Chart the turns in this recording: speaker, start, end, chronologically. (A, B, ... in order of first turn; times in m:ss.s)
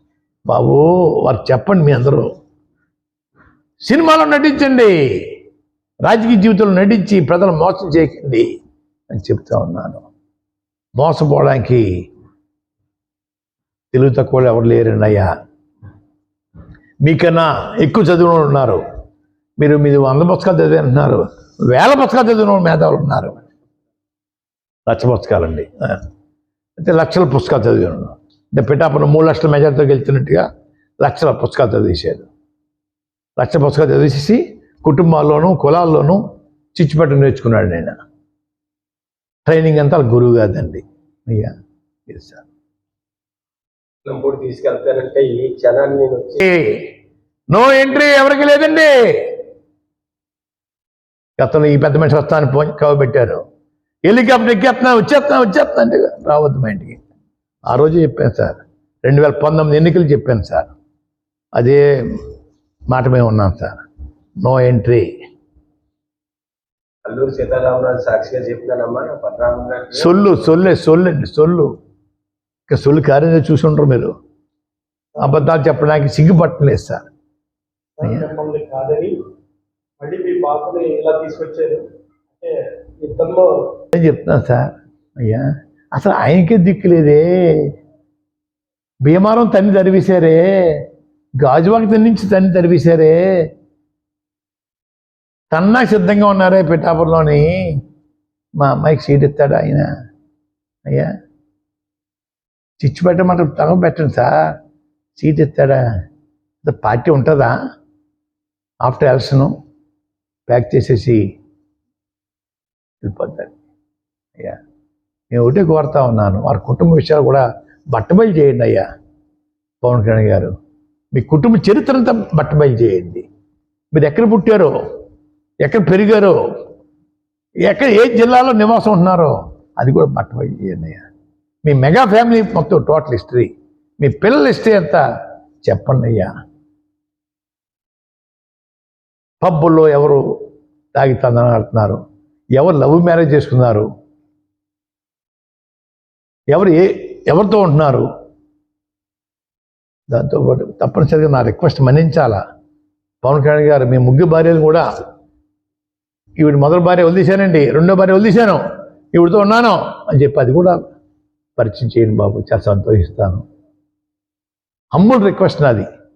0:00.5-0:02.3 A
0:03.8-0:05.4 A
0:06.0-0:08.5 A
0:09.1-0:10.0 A
0:11.0-0:11.9 A
0:13.9-0:15.3 A
0:17.0-0:18.8 A
0:19.6-0:23.4 A
0:24.9-0:26.0 A
0:26.8-0:30.4 A
0:31.0-0:32.3 A
0:33.4-0:36.2 A
0:36.7-0:38.0 A
0:39.4-0:41.5 A
0:42.1-0:42.4 A
0:44.0-0:46.4 B
0:46.4-0:46.9 A
0:47.5-0:49.4 A
0:51.4-0:53.4 A
0:54.0-0:57.0 A
0:57.7-1:00.7 A
1:01.5-1:02.2 A
1:02.9-1:03.8 A
1:04.4-1:05.1 A
1:07.0-1:10.1 B
1:09.9-1:11.7 A
1:12.7-1:14.1 A
1:15.2-1:17.0 A
1:18.0-1:19.1 C
1:20.0-1:21.8 C
1:23.0-1:23.4 C
1:23.9-1:27.7 A
1:29.0-1:30.8 A
1:31.4-1:33.4 A
1:35.5-1:37.8 A
1:38.6-1:39.9 A
1:40.8-1:41.1 A
1:42.8-1:44.3 A
1:45.2-1:45.8 A
1:46.6-1:47.6 A
1:48.8-1:49.5 A
1:50.5-1:51.2 A
1:53.0-1:53.5 A
1:55.3-1:58.8 A
1:59.8-2:00.5 A
2:01.1-2:03.2 A
2:03.9-2:04.7 A
2:05.6-2:06.4 A
2:07.6-2:11.0 A
2:11.6-2:15.0 A
2:15.6-2:16.3 A
2:19.4-2:20.2 A
2:20.9-2:22.0 A
2:22.5-2:23.9 A
2:26.5-2:28.1 A
2:30.1-2:32.4 A
2:33.2-2:34.8 A
2:36.4-2:38.6 A
2:39.1-2:40.8 A
2:41.6-2:43.4 A
2:44.9-2:45.8 A